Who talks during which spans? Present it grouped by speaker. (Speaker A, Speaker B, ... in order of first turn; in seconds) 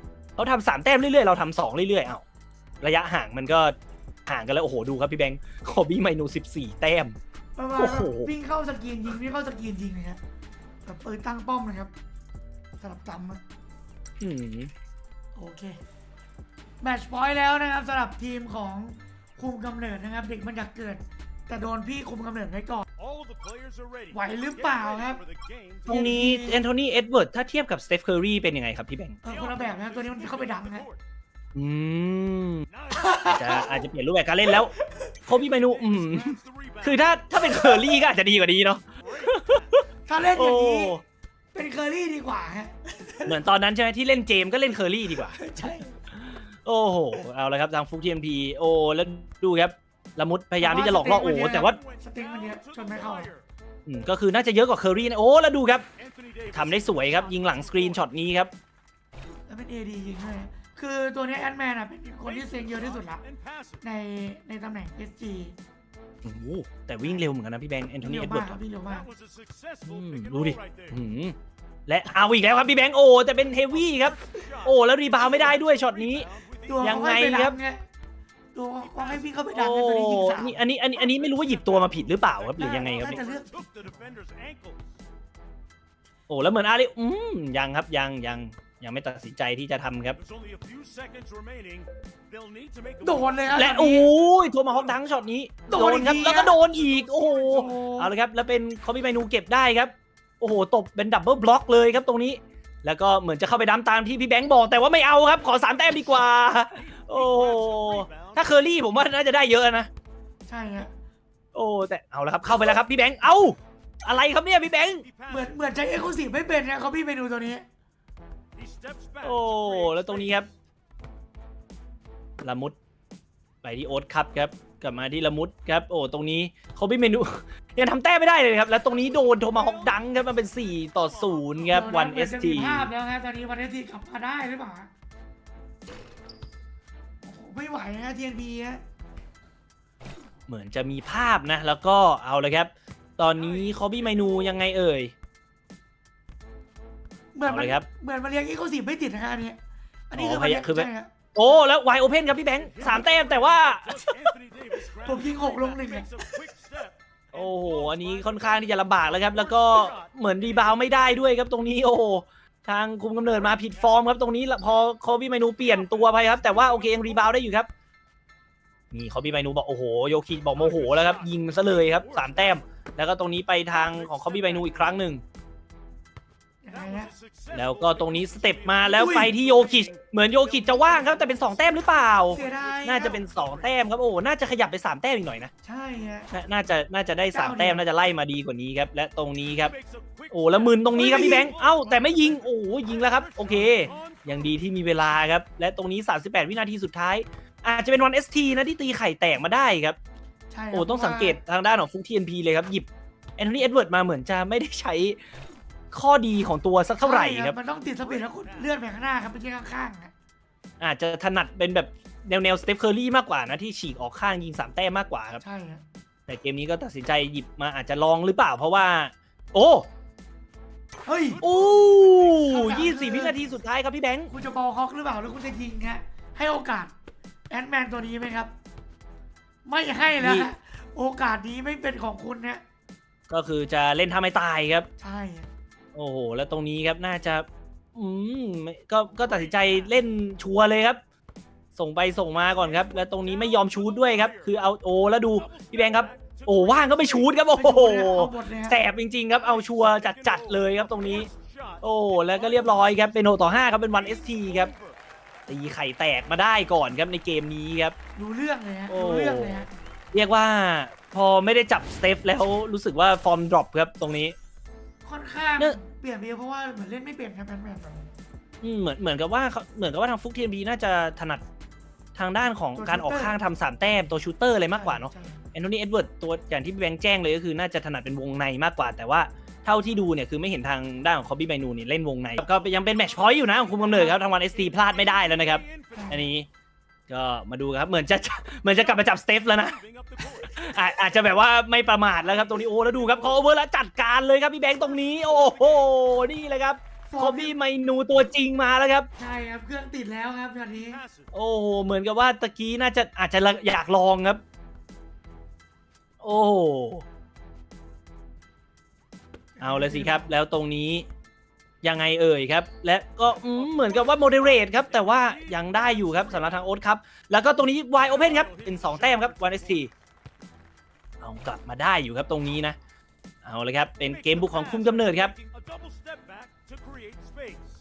Speaker A: 0.4-2.2, 2.8-3.7, 4.3-7.2, 7.8-8.3, 14.2-14.7, 25.9-29.2, 31.5-32.6, 33.3-34.7, 35.3-39.8, 40.3-41.0, 43.2-45.4, 46.1-51.8, 53.9-55.9, 56.5-58.5, 66.2-68.6, 69.8-71.3, 71.9-76.3, 76.8-77.5, 79.5-83.2, 86.3-90.2, 93.5-109.9, 111.5-115.0, 119.2-120.5, 122.4-122.8, 123.6-132.9, 140.5-145.1, 147.4-147.8, 150.1-154.3, 157.3-167.7, 168.9-175.2, 177.5-185.5, 186.3-189.7, 190.3-200.0, 200.7-205.2, 205.9-207.6, 210.8-215.4, 216.3-219.9, 221.4-224.3, 230.2-230.5, 233.3-234.9, 235.9-241.0, 241.8-251.3, 251.8-254.7, 255.5-257.9, 258.9-264.3, 268.6-271.4, 272.1-286.5, 287.1-299.1, 301.3-304.4, 306.2-307.0, 309.6-311.1, 311.8-319.9, 321.2-322.8, 323.4-325.3
Speaker B: 7.5-10.2, 10.8-11.9, 12.8-13.4, 15.3-15.8, 16.8-22.9, 24.1-25.2, 25.9-26.6, 29.2-30.9, 32.9-33.8, 34.5-35.1, 40.1-41.0, 41.5-43.4, 45.1-46.0, 50.6-53.3, 59.5-63.2, 63.8-65.6, 68.0-69.1, 76.7-77.8, 78.5-80.6, 82.6-84.2, 93.0-94.1, 95.7-96.5, 97.5-98.1, 110.5-110.9, 115.3-117.6, 131.7-134.9, 137.2-138.8, 147.3-149.6, 150.1-151.1, 155.0-156.4, 176.6-177.1, 178.9-179.3, 182.3-183.2, 185.6-186.3, 187.3-187.8, 190.9-191.5, 200.5-201.4, 207.0-210.1, 215.4-215.8, 221.0-221.4, 222.4-223.4, 224.3-226.9, 227.5-228.5, 229.7-232.6, 235.0-235.5, 247.5-248.8, 258.1-259.7, 265.0-268.1, 272.7-273.3, 274.7-275.4, 283.8-284.1, 285.9-286.3, 297.1-297.5, 299.2-301.0, 309.6-310.3
Speaker C: 23.0-26.0, 29.2-31.0, 32.7-33.4, 35.6-37.2, 39.0-39.7, 51.4-53.4, 56.0-58.1, 62.2-63.8, 68.9-71.0, 73.7-77.0, 79.0-79.3, 80.9-84.8, 90.2-93.6, 94.7-95.1, 96.1-97.6, 105.8-108.5, 115.0-115.6, 118.6-120.5, 128.9-132.0, 143.4-144.5, 152.6-161.0, 163.5-163.8, 165.6-167.2, 170.5-172.6, 173.7-175.0, 176.7-183.7, 189.4-194.5, 207.9-208.7, 221.4-222.7, 239.2-239.9, 242.5-244.6, 245.2-247.4, 249.3-255.0, 283.1-286.2, 288.8-290.7, 292.5-293.4, 294.8-296.0, 300.9-301.3, 313.3-316.7, 318.0-319.8, 324.1-327.6